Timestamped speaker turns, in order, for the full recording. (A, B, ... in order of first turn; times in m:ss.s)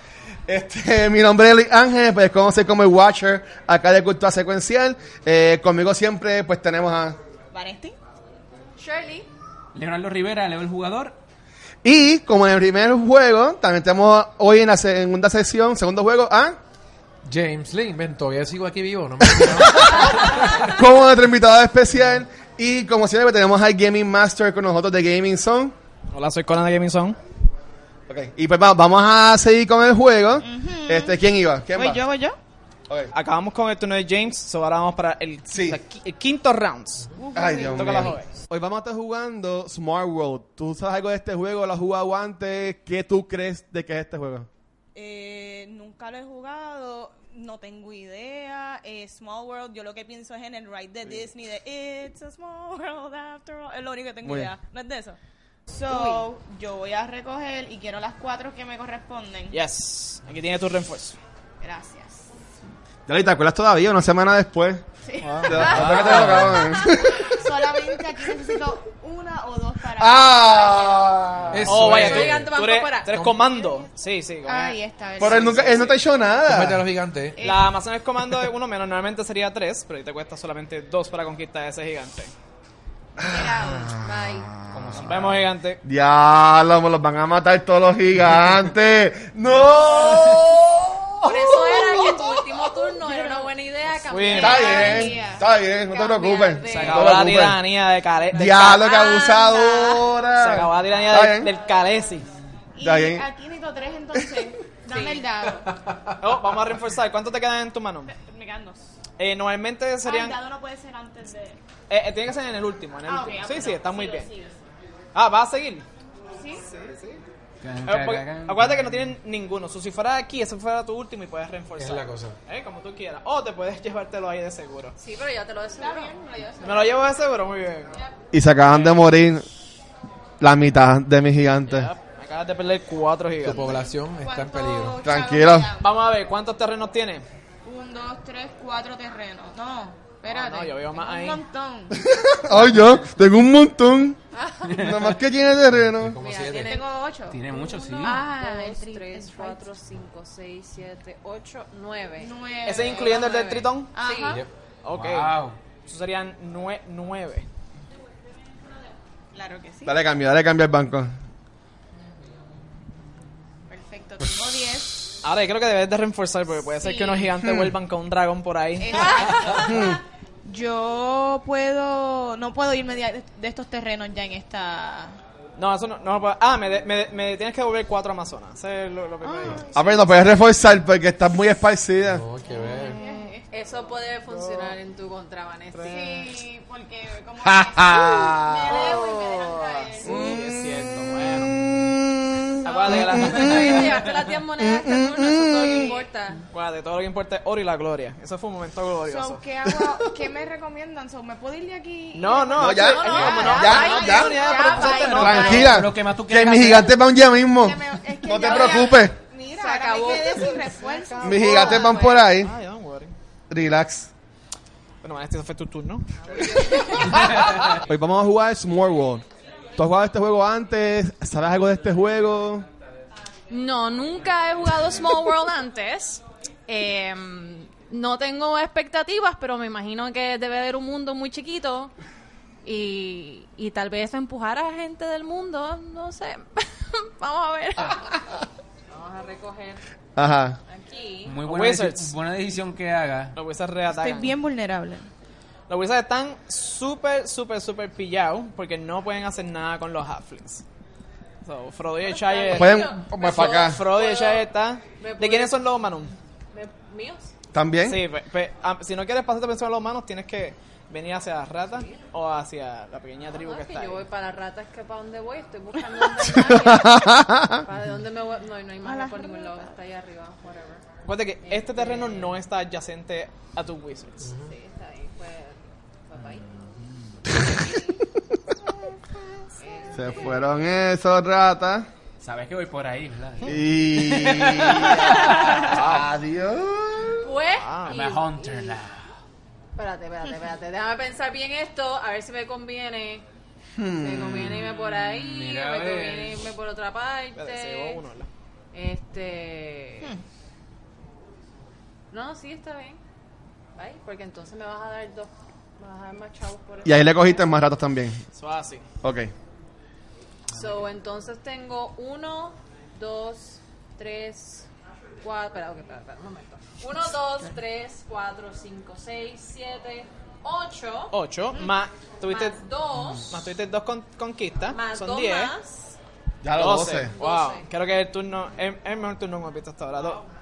0:00.5-0:07.2 A
0:07.5-0:08.0 B
0:08.8-0:09.3 C
0:09.7-0:11.1 D
0:11.8-0:16.6 A
0:17.2-0:20.4 E
0:19.4-0:25.7 A
0:26.1-0:27.2 F
0:28.1-0:32.0 A
0:30.4-0:31.2 B
0:31.7-0:32.4 B
0:33.1-0:38.3 F
0:35.5-0:35.8 A
0:37.2-0:38.1 B
0:37.3-0:44.5 A
0:44.9-0:55.2 B
0:54.2-0:54.5 A
0:55.7-0:59.6 B
0:55.9-0:56.2 C
0:59.5-1:01.2 F
1:01.6-1:02.3 B
1:03.1-1:04.8 A
1:05.0-1:05.6 B
1:05.2-1:05.8 F
1:05.4-1:08.5 A
1:05.6-1:06.6 D
1:05.6-1:06.8 C
1:05.7-1:06.6 E
1:07.1-1:11.2 B
1:10.0-1:11.8 A
1:11.5-1:12.6 E
1:11.7-1:15.9 F
1:11.8-1:13.4 C
1:13.1-1:13.4 E
1:14.4-1:15.9 B
1:15.2-1:16.8 A
1:16.4-1:17.4 E
1:17.4-1:17.7 B
1:17.4-1:22.3 F
1:23.2-1:25.1 A
1:23.2-1:24.0 B
1:23.9-1:24.6 C
1:24.7-1:25.5 D
1:25.0-1:25.8 F
1:25.8-1:32.9 A
1:31.2-1:35.1 C
1:34.0-1:34.9 F
1:34.3-1:37.6 A
1:34.4-1:35.5 B
1:35.9-1:37.2 C
1:36.6-1:37.2 D
1:36.7-1:38.9 F
1:38.3-1:41.5 A
1:38.7-1:40.1 C
1:40.3-1:42.2 F
1:42.7-1:45.7 B
1:42.8-1:43.2 A
1:44.9-1:45.2 C
1:46.2-1:48.1 F
1:48.1-1:48.8 B
1:49.2-1:50.4 F
1:50.0-1:51.6 B
1:51.9-1:54.3 F
1:53.0-1:54.5 B
1:55.1-1:55.8 F
1:56.4-1:56.6 B
1:56.5-1:57.2 F
1:57.6-1:59.1 D
1:57.8-2:05.0 F
2:01.8-2:02.4 E
2:05.0-2:07.0 C
2:05.7-2:07.0 B
2:06.6-2:08.0 F
2:08.3-2:09.5 A
2:08.7-2:09.0 F
2:10.4-2:11.9 A
2:11.7-2:13.7 F
2:13.4-2:15.0 E
2:13.4-2:15.9 B
2:15.0-2:15.7 A
2:15.8-2:17.2 F
2:17.6-2:22.0 B
2:20.3-2:21.4 F
2:21.9-2:26.2 A
2:22.6-2:23.0 D
2:24.3-2:24.8 C
2:24.6-2:25.2 D
2:25.7-2:26.8 E
2:26.2-2:26.9 C
2:26.4-2:29.7 B
2:27.3-2:28.2 D
2:27.5-2:34.4 C
2:32.2-2:34.4 B
2:32.6-2:33.9 F
2:34.8-2:37.5 F
2:34.9-2:35.6 D
2:39.3-2:40.0 B
2:39.8-2:41.1 A
2:43.7-2:45.2 B
2:45.2-2:49.2 F
2:46.8-2:47.3 B
2:48.8-2:55.2 B
2:48.9-2:49.7 C
2:49.7-2:50.0 A
2:55.6-3:00.0 F
2:59.2-2:59.8 B
2:59.6-3:02.2 A
3:02.0-3:03.0 E
3:02.4-3:03.5 B
3:02.8-3:03.3 F
3:03.5-3:06.0 C
3:04.3-3:04.8 F
3:05.7-3:06.2 F
3:05.8-3:10.1 B
3:07.4-3:08.8 A
3:08.5-3:10.1 C
3:09.8-3:11.6 F
3:10.0-3:13.8 A
3:12.6-3:14.0 F
3:12.7-3:16.4 C
3:14.6-3:15.9 A
3:15.7-3:16.0 B
3:16.5-3:19.4 F
3:19.0-3:24.9 B
3:22.1-3:25.8 F
3:22.6-3:29.2 A
3:22.7-3:25.7 C
3:24.7-3:27.0 D
3:27.6-3:32.3 B
3:29.5-3:30.7 C
3:30.8-3:33.1 F
3:31.2-3:32.5 A
3:33.5-3:34.1 A
3:35.0-3:37.3 F
3:36.3-3:37.7 C
3:37.1-3:37.7 D
3:37.7-3:39.2 A
3:39.8-3:42.7 A
3:43.5-3:51.9 C
3:52.6-3:58.2 C
3:58.9-3:59.8 C
4:00.2-4:00.6 A
4:00.7-4:01.4 C
4:01.2-4:03.4 D
4:01.4-4:02.1 F
4:03.3-4:04.3 F
4:03.9-4:05.1 B
4:05.7-4:10.6 F
4:11.4-4:16.1 F
4:12.0-4:15.5 C
4:12.5-4:13.8 A
4:16.5-4:17.3 C
4:17.5-4:18.0 A
4:17.8-4:24.0 F
4:21.7-4:22.0 C
4:23.3-4:30.8 C
4:26.4-4:27.6 A
4:28.8-4:29.8 B
4:31.0-4:34.3 F
4:31.4-4:32.4 C
4:34.2-4:34.5 E
4:34.4-4:36.5 C
4:37.3-4:38.0 C
4:39.6-4:40.5 C
4:39.9-4:41.9 A
4:42.2-4:46.0 D
4:43.4-4:47.2 A
4:44.9-4:45.7 C
4:47.2-4:48.8 C
4:47.5-4:48.0 F
4:47.9-4:49.1 D
4:49.8-4:53.2 C
4:53.8-4:54.7 A
4:54.0-4:58.0 C
4:54.5-4:56.4 D
4:57.4-4:58.3 F
4:58.7-5:00.2 C
5:02.1-5:03.0 C
5:03.8-5:07.5 C
5:06.8-5:08.2 A
5:08.3-5:08.8 F
5:09.0-5:09.3 A
5:10.5-5:14.7 C
5:15.2-5:21.1 C
5:21.1-5:22.6 F
5:22.3-5:23.3 C
5:23.2-5:25.5 F
5:24.7-5:26.0 C
5:26.4-5:27.1 A
5:26.5-5:30.2 F
5:27.1-5:27.6 C